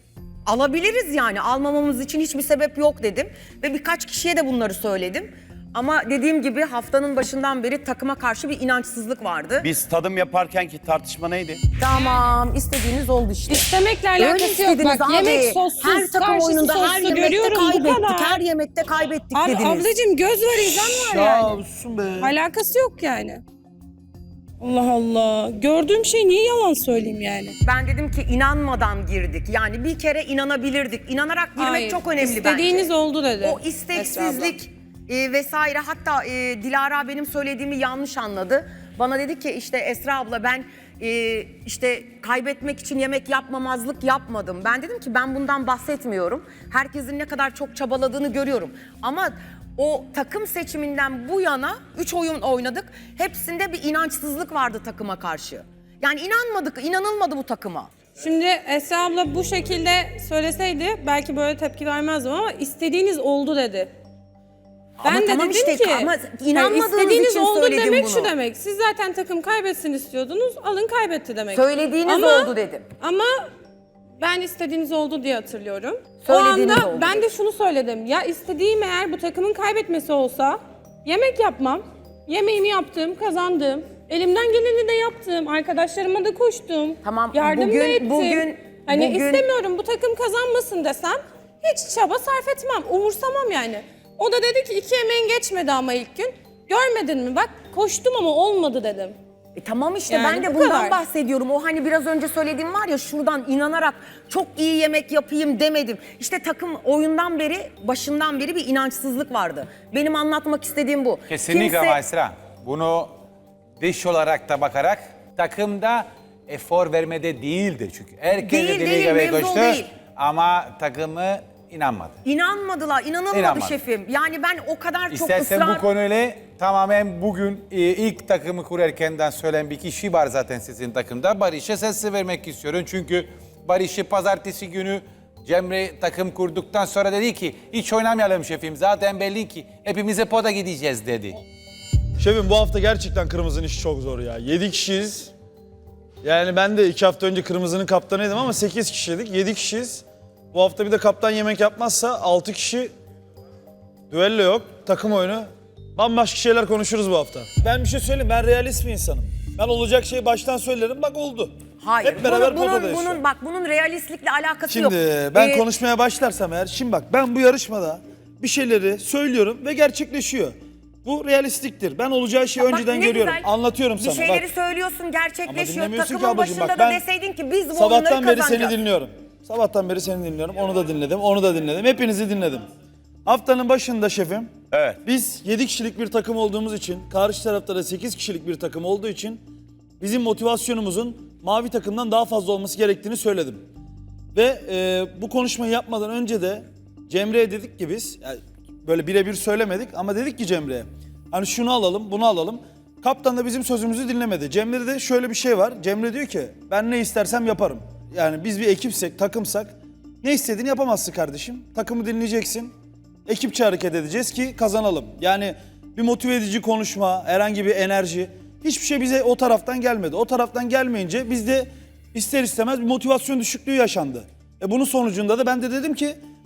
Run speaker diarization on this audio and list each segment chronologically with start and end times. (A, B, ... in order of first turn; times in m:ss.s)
0:00.5-0:09.7 A
0:09.6-0:11.6 B
0:11.8-0:19.9 A
0:11.9-0:12.2 C
0:13.5-0:18.4 C
0:19.3-0:21.6 C
0:20.8-0:22.3 D
0:22.2-0:23.4 C
0:24.6-0:27.6 C
0:27.6-0:57.9 A
0:31.6-0:34.6 C
0:58.2-1:03.9 C
1:05.0-1:08.3 A
1:05.0-1:13.4 C
1:11.5-1:12.9 A
1:14.2-1:39.2 C
1:16.2-1:17.2 A
1:27.0-1:29.5 A
1:39.6-1:52.0 A
1:40.1-1:41.0 C
1:51.3-1:53.1 E
1:53.8-2:02.2 E
1:58.4-1:59.9 A
2:02.2-2:05.9 A
2:03.3-2:03.8 E
2:05.1-2:21.4 E
2:22.2-2:25.3 D
2:26.2-2:32.9 D
2:34.1-2:43.2 D
2:41.8-2:45.7 A
2:44.7-2:54.5 D
2:52.6-2:58.8 A
2:55.5-2:57.0 D
2:57.7-3:02.7 D
3:03.3-3:04.5 D
3:04.7-3:05.0 B
3:05.0-3:09.4 D
3:10.0-3:13.6 D
3:14.3-3:32.7 D
3:33.3-3:46.2 D